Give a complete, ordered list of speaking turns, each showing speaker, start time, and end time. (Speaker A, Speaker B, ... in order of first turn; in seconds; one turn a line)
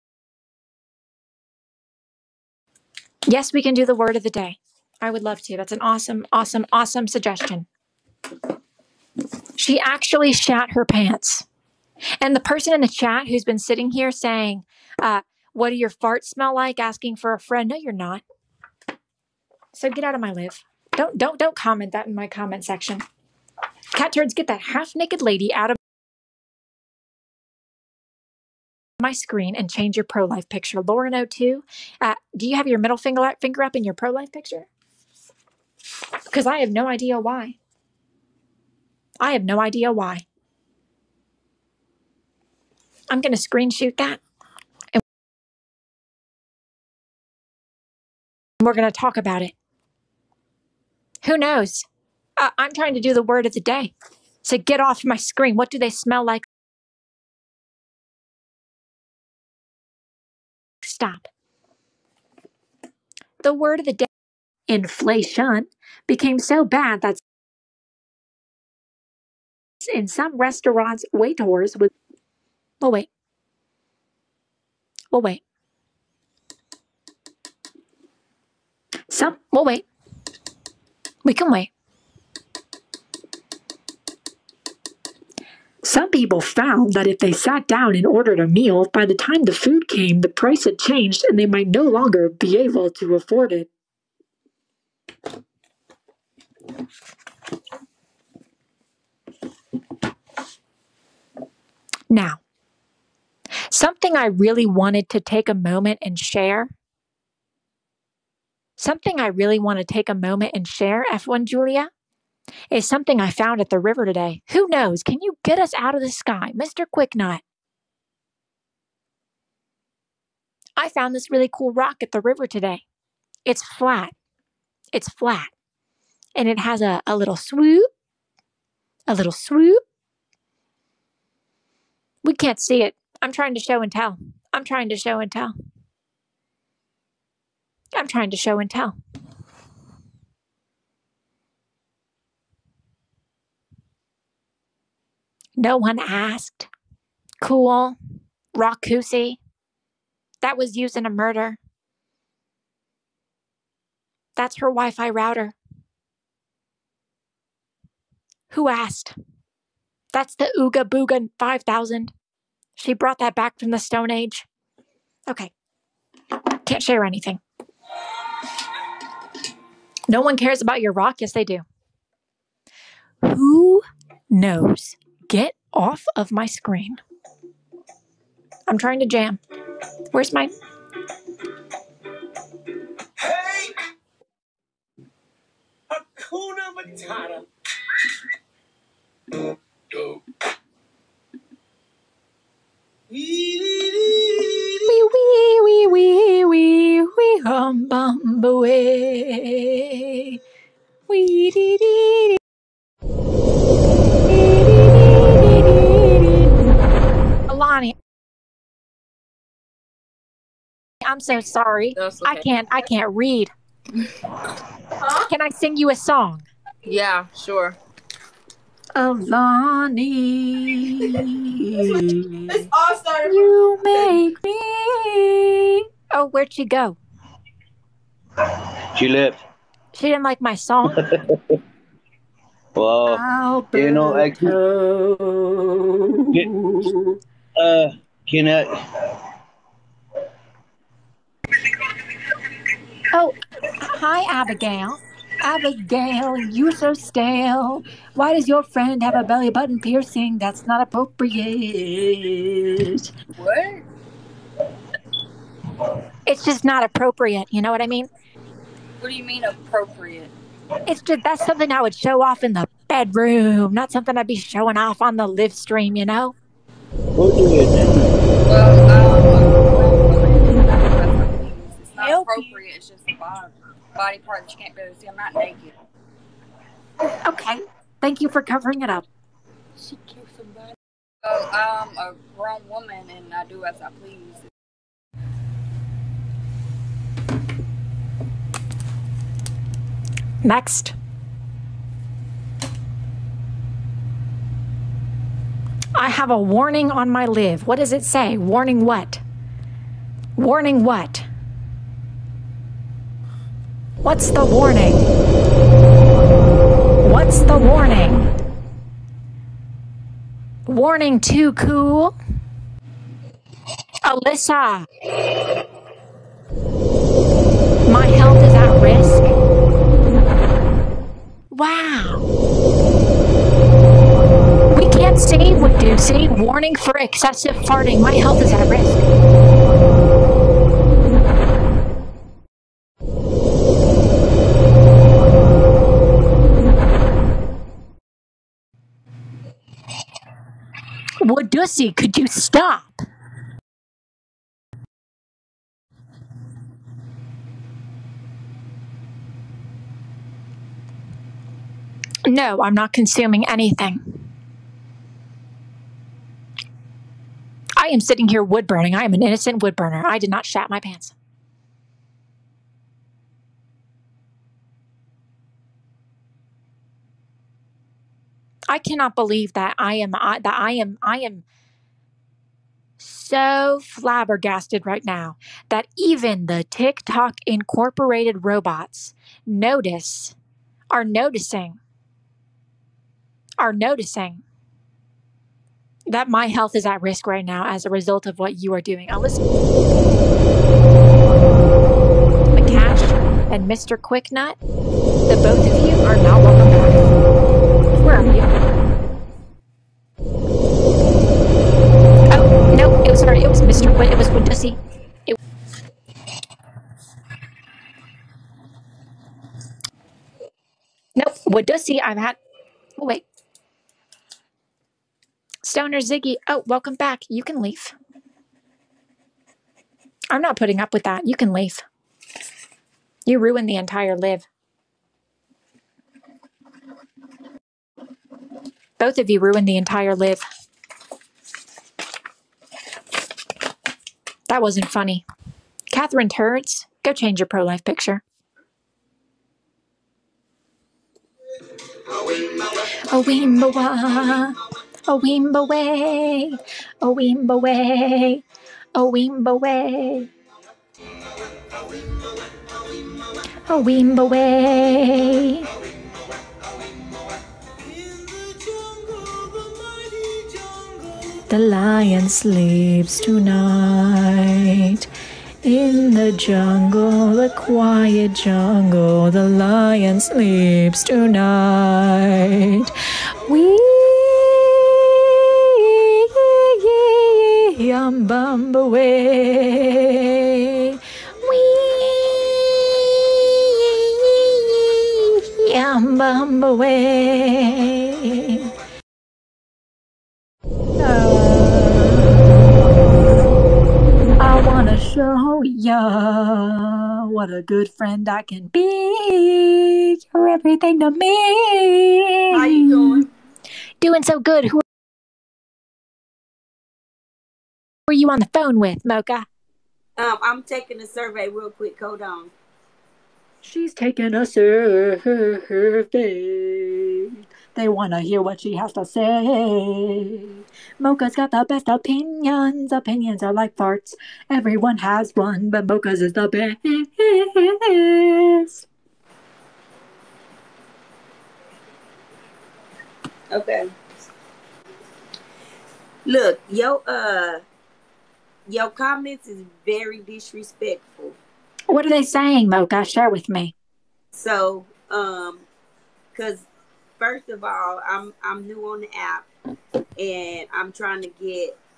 Speaker A: 3.3-7.7
Speaker A: 9.6-11.4
Speaker A: 12.2-18.2
Speaker A: 19.7-23.1
Speaker A: 23.9-25.8
Speaker A: 29.0-34.7
Speaker A: 36.3-37.6
Speaker A: 39.2-40.2
Speaker A: 43.1-44.2
Speaker A: 48.6-49.5
Speaker A: 51.2-51.9
Speaker A: 52.4-53.9
Speaker A: 54.4-56.4
Speaker A: 60.8-61.3
Speaker A: 63.4-64.1
Speaker A: 64.7-67.2
Speaker A: 69.8-71.9
Speaker A: 72.8-73.1
Speaker A: 75.1-75.4
Speaker A: 79.1-79.8
Speaker A: 81.2-81.7
Speaker A: 85.8-93.7
Speaker A: 102.1-102.4
Speaker A: 103.7-106.7
Speaker A: 108.8-111.9
Speaker A: 112.7-117.4
Speaker A: 120.8-122.8
Speaker A: 123.5-124.1
Speaker A: 124.9-125.5
Speaker A: 126.4-127.9
Speaker A: 129.1-129.8
Speaker A: 132.2-135.5
Speaker A: 137.9-139.0
Speaker A: 145.6-146.7
Speaker A: 147.4-148.0
Speaker A: 148.6-149.4
Speaker A: 150.4-151.6
Speaker A: 154.4-155.6
Speaker A: 158.5-159.1
Speaker A: 160.1-162.1
Speaker A: 162.8-164.4
Speaker A: 166.6-167.4
Speaker A: 170.1-171.6
Speaker A: 173.2-177.0
Speaker A: 178.7-179.4
Speaker A: 180.1-180.5
Speaker A: 194.8-200.4
Speaker A: 201.1-202.4
Speaker A: 204.3-206.5
Speaker A: 207.5-207.9
Speaker A: 211.0-213.5
Speaker B: 211.9-212.4
Speaker A: 215.2-216.4
Speaker B: 216.8-217.8
Speaker A: 218.9-222.7
Speaker B: 222.6-223.2
Speaker A: 223.2-227.0
Speaker C: 228.9-229.4
Speaker A: 229.9-231.1
Speaker C: 231.0-231.6
Speaker C: 232.8-233.2
Speaker A: 233.1-237.2
Speaker C: 233.7-234.6
Speaker C: 237.6-238.8
Speaker A: 243.1-253.1
Speaker B: 253.4-253.8
Speaker A: 256.2-258.1
Speaker B: 259.0-260.3
Speaker A: 260.9-266.4
Speaker C: 267.1-268.0
Speaker B: 268.4-275.7
Speaker A: 277.2-279.1
Speaker B: 279.8-280.7
Speaker B: 281.2-284.5
Speaker A: 290.4-290.9
Speaker A: 295.9-299.2
Speaker A: 300.4-301.2
Speaker A: 304.0-305.1
Speaker A: 307.0-308.3
Speaker A: 310.7-312.1
Speaker A: 314.0-314.9
Speaker A: 317.9-319.4
Speaker A: 321.5-322.2
Speaker A: 324.7-329.1
Speaker A: 341.2-343.0
Speaker A: 352.3-354.2
Speaker A: 357.8-361.1
Speaker A: 368.7-371.4
Speaker A: 373.0-380.4
Speaker A: 380.9-381.8
Speaker A: 383.6-384.4
Speaker A: 386.1-389.4
Speaker A: 392.5-394.6
Speaker A: 395.3-397.1
Speaker A: 398.0-398.4
Speaker A: 402.3-405.4
Speaker A: 411.1-412.4
Speaker A: 413.0-413.2
Speaker A: 415.6-417.9
Speaker A: 420.3-421.8
Speaker A: 423.3-424.4
Speaker A: 429.0-430.4
Speaker A: 434.5-435.2
Speaker A: 435.9-438.2
Speaker A: 443.1-448.4
Speaker A: 448.9-450.3
Speaker A: 453.7-455.7
Speaker A: 461.5-465.1
Speaker A: 465.6-488.7
Speaker A: 491.0-493.6
Speaker A: 494.4-503.2
Speaker D: 502.5-503.3
Speaker A: 504.0-504.8
Speaker A: 508.1-509.5
Speaker D: 510.2-512.5
Speaker A: 513.6-528.9
Speaker D: 533.5-533.9
Speaker D: 536.2-537.6
Speaker D: 538.7-541.4
Speaker A: 541.9-543.7
Speaker D: 544.3-545.6
Speaker D: 546.3-546.6
Speaker D: 547.2-549.5
Speaker D: 550.2-551.8